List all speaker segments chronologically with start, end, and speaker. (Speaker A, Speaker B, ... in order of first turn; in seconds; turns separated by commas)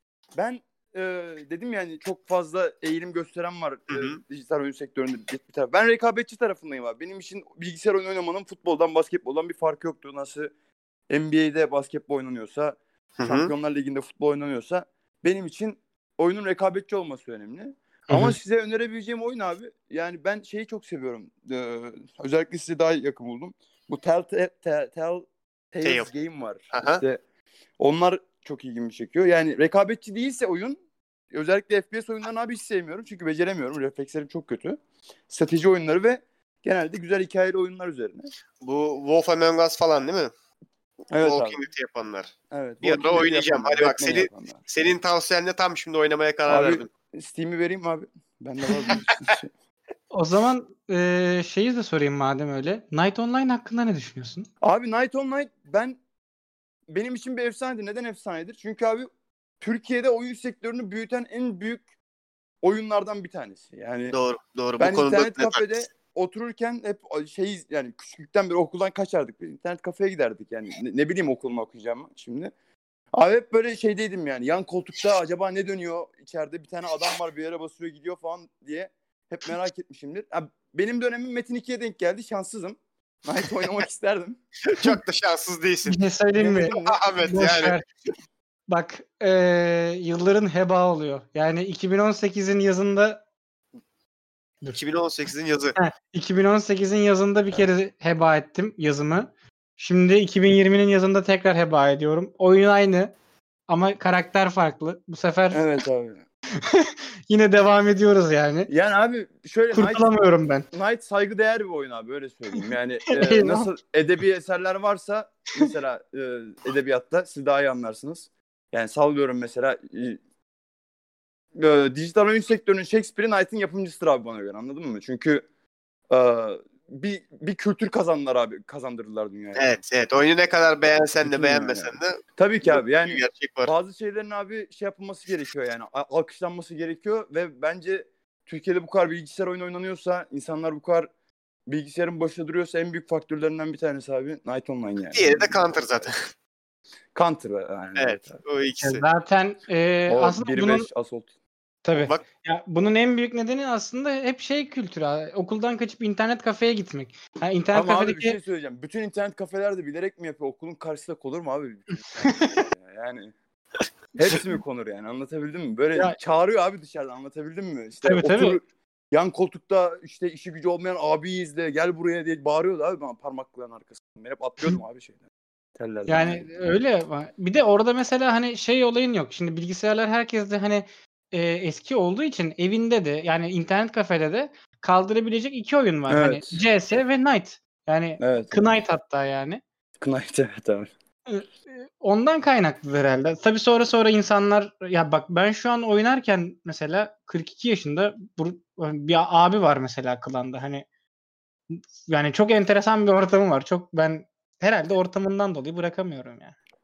Speaker A: 0.3-10.5, Speaker B: 3.9-4.2, Speaker A: 11.1-27.2, Speaker B: 13.2-13.5, Speaker C: 18.1-18.4, Speaker B: 25.8-26.1, Speaker B: 26.7-27.0, Speaker A: 27.8-30.8, Speaker A: 31.3-38.3, Speaker B: 38.6-40.3, Speaker A: 41.1-41.6, Speaker B: 41.1-46.9, Speaker A: 42.5-44.7, Speaker A: 46.5-49.5, Speaker C: 50.1-54.5, Speaker A: 54.6-56.0, Speaker A: 56.9-59.1, Speaker A: 59.6-61.9, Speaker A: 62.6-64.2, Speaker B: 64.1-65.7, Speaker A: 64.8-72.5, Speaker A: 73.1-84.4, Speaker B: 84.7-86.0, Speaker C: 85.8-87.8, Speaker A: 86.4-86.7, Speaker B: 86.6-87.8, Speaker C: 88.7-93.2, Speaker B: 94.7-95.8, Speaker C: 95.8-103.1, Speaker C: 103.7-105.6, Speaker A: 105.5-106.2, Speaker C: 106.7-108.7, Speaker A: 108.7-110.1, Speaker C: 109.7-110.7, Speaker A: 110.7-120.2, Speaker C: 113.1-113.7, Speaker A: 121.5-125.4, Speaker A: 126.1-129.7, Speaker B: 129.5-133.7, Speaker A: 131.2-141.1, Speaker A: 141.7-145.6, Speaker B: 145.1-146.2, Speaker A: 147.1-148.4, Speaker B: 147.9-149.0, Speaker C: 148.8-150.9, Speaker A: 150.1-151.3, Speaker C: 151.8-158.4, Speaker A: 157.7-163.3, Speaker C: 162.2-162.6, Speaker A: 164.1-175.2, Speaker C: 168.0-168.6, Speaker A: 175.8-176.7, Speaker C: 176.1-189.6, Speaker A: 186.1-186.6, Speaker A: 188.2-188.6, Speaker A: 190.0-190.9, Speaker C: 191.3-200.8, Speaker C: 201.7-206.5